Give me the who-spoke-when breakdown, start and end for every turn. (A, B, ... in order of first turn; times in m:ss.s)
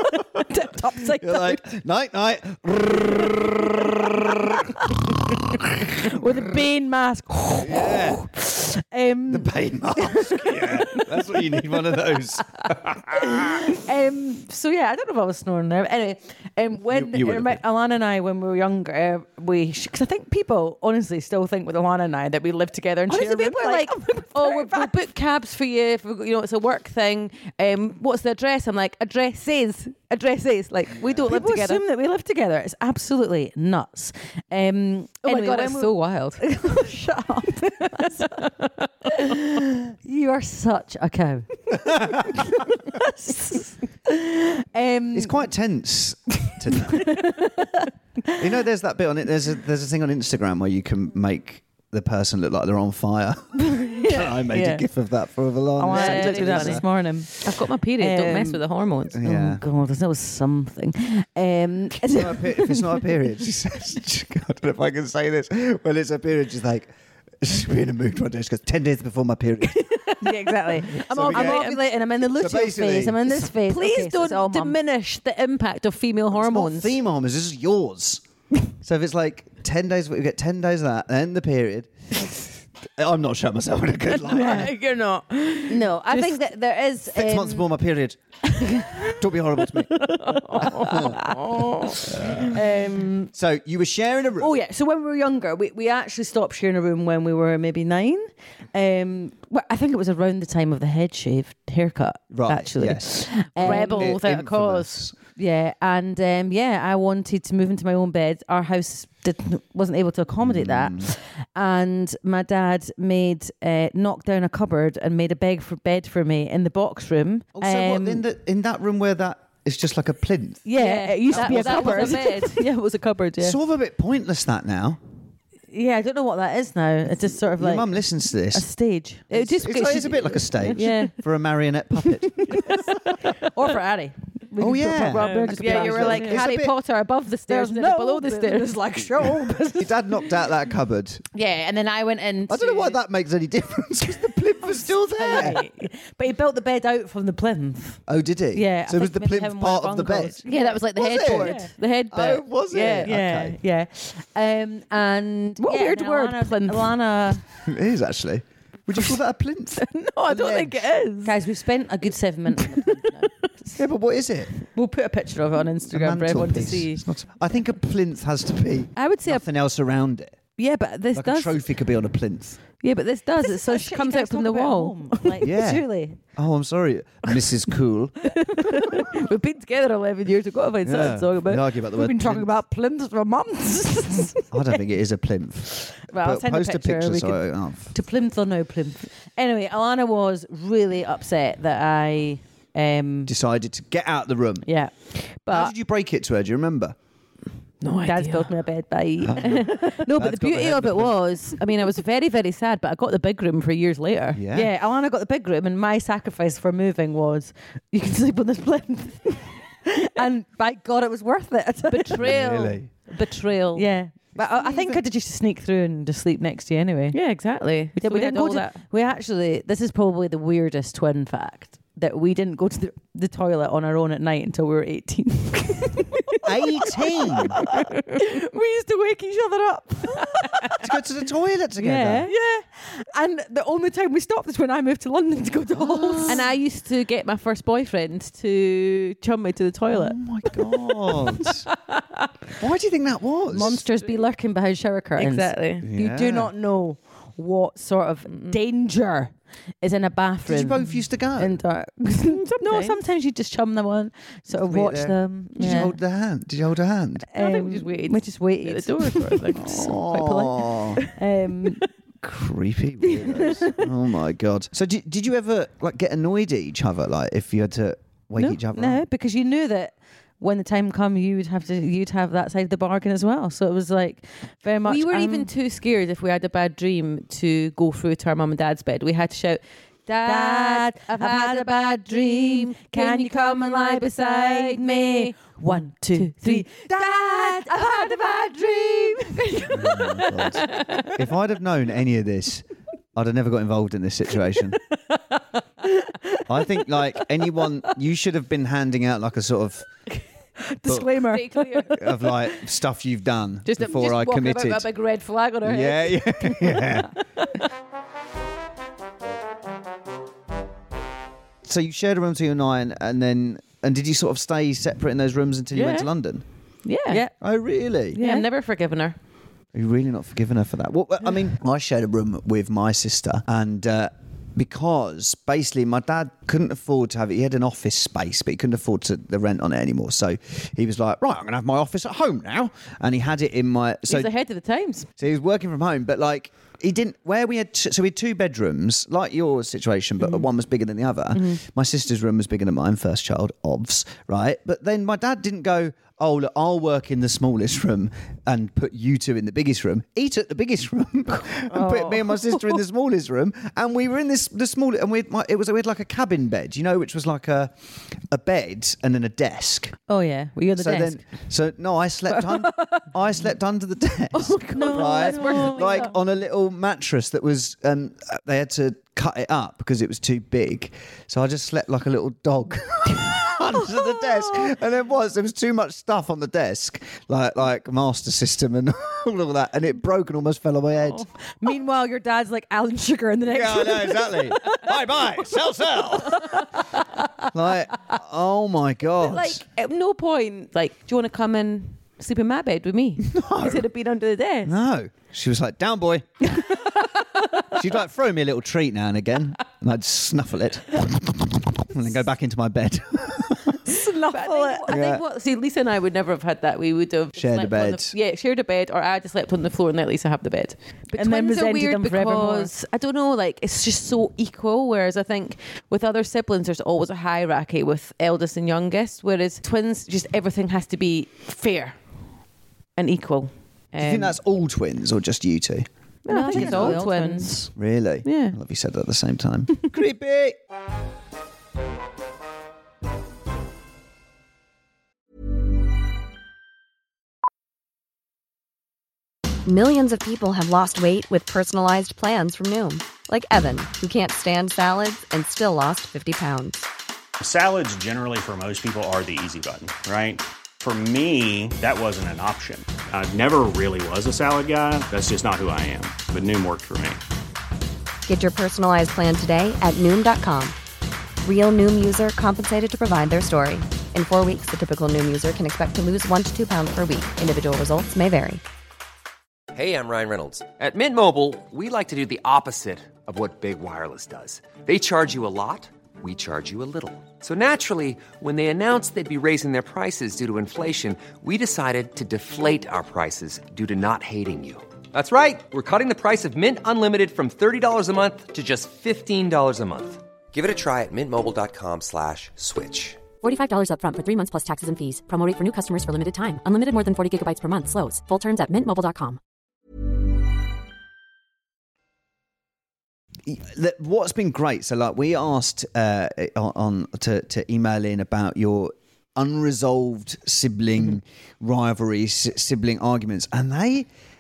0:00.5-0:01.6 A
0:01.1-0:05.9 B
0:06.0-0:11.4 A
0:07.6-0:08.3 B
0:09.3-0:13.6 B
0:13.1-0:25.0 A
0:16.9-0:17.6 B
0:23.0-0:31.8 C
0:31.0-0:31.3 B
0:31.1-0:38.4 A
0:35.2-0:36.8 C
0:38.0-0:38.5 C
0:39.1-0:45.5 A
0:41.8-0:42.4 B
0:45.1-0:47.3 B
0:46.9-0:47.5 A
0:48.4-0:56.8 B
0:53.7-0:54.8 A
0:55.8-0:57.3 A
0:55.8-0:59.2 C
0:58.0-0:58.6 A
0:59.1-0:59.6 B
0:59.2-1:03.1 A
1:02.1-1:10.1 B
1:10.2-1:14.8 A
1:10.9-1:13.5 B
1:11.0-1:11.9 C
1:13.5-1:17.0 C
1:16.3-1:18.2 B
1:18.8-1:21.9 B
1:23.0-1:24.8 B
1:24.1-1:26.5 C
1:25.7-1:27.7 A
1:27.1-1:31.2 B
1:30.2-1:32.5 C
1:30.3-1:33.3 A
1:32.1-1:32.6 B
1:33.3-1:34.6 B
1:34.4-1:44.2 A
1:42.3-1:45.1 B
1:43.5-1:45.0 C
1:45.4-1:58.2 A
1:50.4-1:51.1 B
1:57.6-2:00.7 B
2:00.6-2:03.6 A
2:00.7-2:02.8 C
2:01.3-2:02.3 B
2:03.4-2:05.0 B
2:05.7-2:08.0 A
2:07.4-2:08.7 B
2:08.5-2:11.1 A
2:09.3-2:13.0 B
2:09.3-2:11.1 C
2:12.4-2:16.6 A
2:14.6-2:16.7 B
2:15.1-2:18.9 C
2:17.5-2:20.0 A
2:19.6-2:21.2 B
2:21.4-2:22.2 C
2:21.4-2:22.9 A
2:22.5-2:25.6 B
2:25.1-2:28.0 A
2:28.1-2:33.6 B
2:28.5-2:31.7 A
2:30.4-2:33.1 C
2:32.8-2:37.4 A
2:35.6-2:37.1 C
2:37.6-2:40.9 B
2:39.8-2:41.4 C
2:41.2-2:43.3 A
2:42.6-2:43.2 C
2:43.8-2:44.5 B
2:44.7-2:47.0 A
2:45.9-2:50.4 B
2:50.6-2:51.6 A
2:51.1-2:52.6 B
2:52.8-2:55.5 C
2:53.3-2:56.2 A
2:55.4-2:58.2 B
2:58.7-2:59.1 A
2:58.7-3:01.6 C
3:00.8-3:02.5 B
3:01.8-3:04.4 A
3:04.5-3:07.9 B
3:06.1-3:13.3 A
3:13.2-3:14.7 B
3:14.6-3:15.7 A
3:15.5-3:17.0 B
3:17.8-3:18.5 C
3:18.0-3:21.6 A
3:19.2-3:21.2 B
3:19.4-3:24.4 C
3:24.3-3:24.7 B
3:24.5-3:32.4 A
3:31.9-3:33.9 C
3:32.2-3:32.9 B
3:33.7-3:37.2 A
3:34.4-3:35.0 B
3:37.1-3:38.8 C
3:38.0-3:50.8 A
3:46.4-3:47.6 B
3:47.4-3:48.0 C
3:50.1-3:50.8 C
3:50.8-3:52.3 B
3:51.8-3:56.5 A
3:55.8-3:56.4 B
3:56.2-4:00.2 C
3:59.9-4:01.7 B
4:01.1-4:02.0 C
4:02.6-4:03.8 B
4:03.5-4:15.9 A
4:03.6-4:04.2 C
4:05.2-4:05.9 C
4:05.8-4:06.5 B
4:08.2-4:08.6 C
4:10.5-4:11.6 B
4:12.2-4:13.0 C
4:14.5-4:17.3 B
4:15.6-4:15.9 C
4:17.3-4:21.8 A
4:17.4-4:19.9 C
4:19.5-4:21.0 B
4:22.2-4:29.0 B
4:23.3-4:23.7 A
4:28.4-4:35.5 A
4:34.8-4:51.1 C
4:40.2-4:50.6 A
4:49.7-4:54.8 B
4:56.5-4:59.9 B
5:00.6-5:02.3 A
5:01.1-5:02.0 C
5:01.9-5:04.9 B
5:03.6-5:07.5 C
5:05.6-5:07.1 B
5:11.6-5:16.4 B
5:15.7-5:16.1 C
5:16.8-5:17.2 C
5:17.4-5:18.2 B
5:18.1-5:18.5 A
5:18.1-5:19.2 C
5:19.7-5:34.3 B
5:34.1-5:35.1 C
5:35.2-6:00.0 B
5:51.7-5:52.5 A
6:00.1-6:01.2 A
6:00.8-6:21.3 B
6:04.4-6:06.1 C
6:04.7-6:06.1 A
6:21.6-6:24.8 A
6:23.5-6:26.6 B
6:27.5-6:29.6 B
6:29.2-6:34.8 C
6:33.2-6:33.9 B
6:34.6-6:36.6 B
6:37.7-6:43.8 B
6:43.9-6:45.0 A
6:43.9-7:02.1 C
6:44.9-6:45.2 B
6:47.4-6:48.1 B
6:51.1-6:52.7 A
7:03.0-7:04.4 C
7:04.0-7:05.9 B
7:06.2-7:07.6 C
7:06.3-7:07.7 A
7:06.5-7:07.0 B
7:07.7-7:10.6 B
7:08.2-7:08.6 C
7:19.6-7:26.9 D
7:27.4-7:37.2 E
7:38.2-7:40.8 D
7:41.4-7:48.6 D
7:49.7-8:13.2 F
8:13.4-8:19.4 G
8:23.4-8:34.1 B